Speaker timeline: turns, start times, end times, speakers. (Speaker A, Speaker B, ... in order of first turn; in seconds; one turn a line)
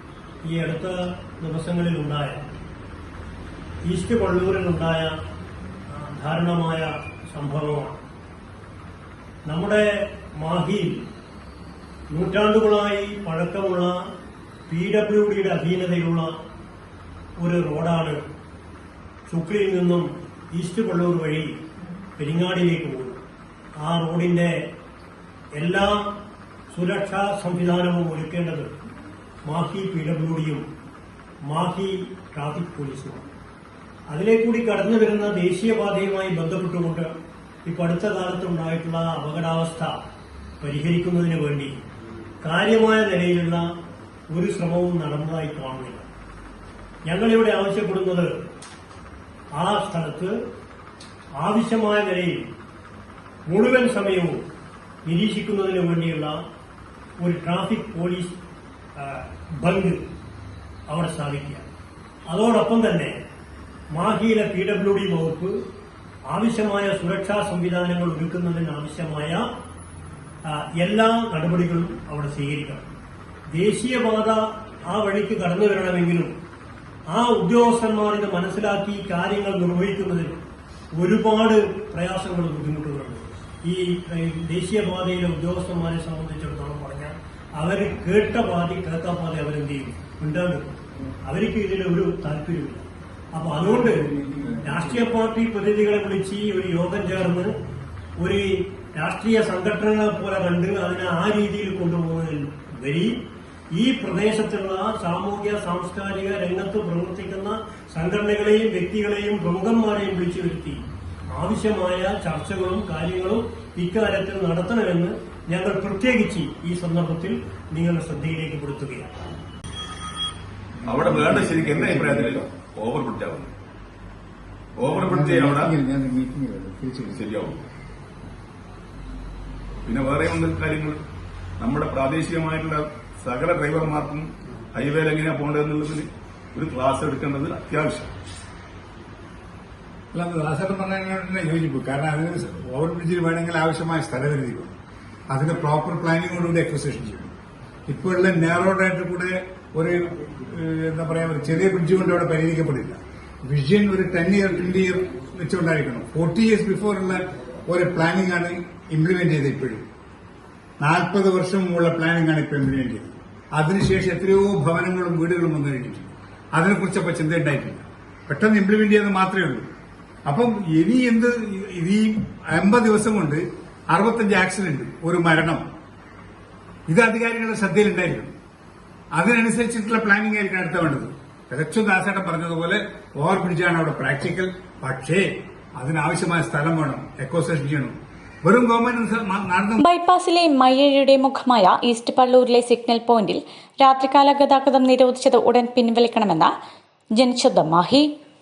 Speaker A: 0.5-2.5
Speaker A: 3.9-5.2
Speaker A: 5.9-8.0
Speaker A: 9.5-11.0
Speaker A: 12.1-14.1
Speaker A: 14.7-16.4
Speaker A: 17.4-18.2
Speaker A: 19.3-21.6
Speaker A: 22.2-23.2
Speaker A: 23.8-24.6
Speaker A: 25.6-26.1
Speaker A: 26.7-28.8
Speaker A: 29.4-30.6
Speaker A: 31.5-33.3
Speaker A: 34.1-37.1
Speaker A: 37.6-40.0
Speaker A: 40.6-41.8
Speaker A: 42.4-43.7
Speaker A: 44.3-46.1
Speaker A: 47.1-48.4
Speaker A: 49.6-50.4
Speaker A: 51.4-52.5
Speaker A: 53.5-54.4
Speaker A: 55.0-56.4
Speaker A: 57.2-58.4
Speaker A: 59.0-60.0
Speaker A: 60.9-61.7
Speaker A: 62.3-63.1
Speaker A: 63.9-65.6
Speaker A: 66.3-69.5
Speaker A: 70.5-72.9
Speaker A: 73.5-76.3
Speaker A: 77.1-94.1
Speaker B: 93.8-94.8
Speaker A: 94.6-97.5
Speaker A: 98.2-119.1
Speaker C: 120.8-123.5
Speaker B: 120.9-122.5
Speaker C: 124.8-125.8
Speaker B: 124.9-127.2
Speaker C: 127.1-127.6
Speaker C: 129.8-131.0
Speaker C: 131.6-138.1
Speaker B: 140.1-144.8
Speaker B: 145.3-147.3
Speaker B: 147.9-159.8
Speaker B: 160.8-169.7
Speaker B: 170.2-175.7
Speaker B: 176.9-178.3
Speaker B: 179.1-189.8
Speaker D: 189.8-196.5
Speaker D: 197.2-198.1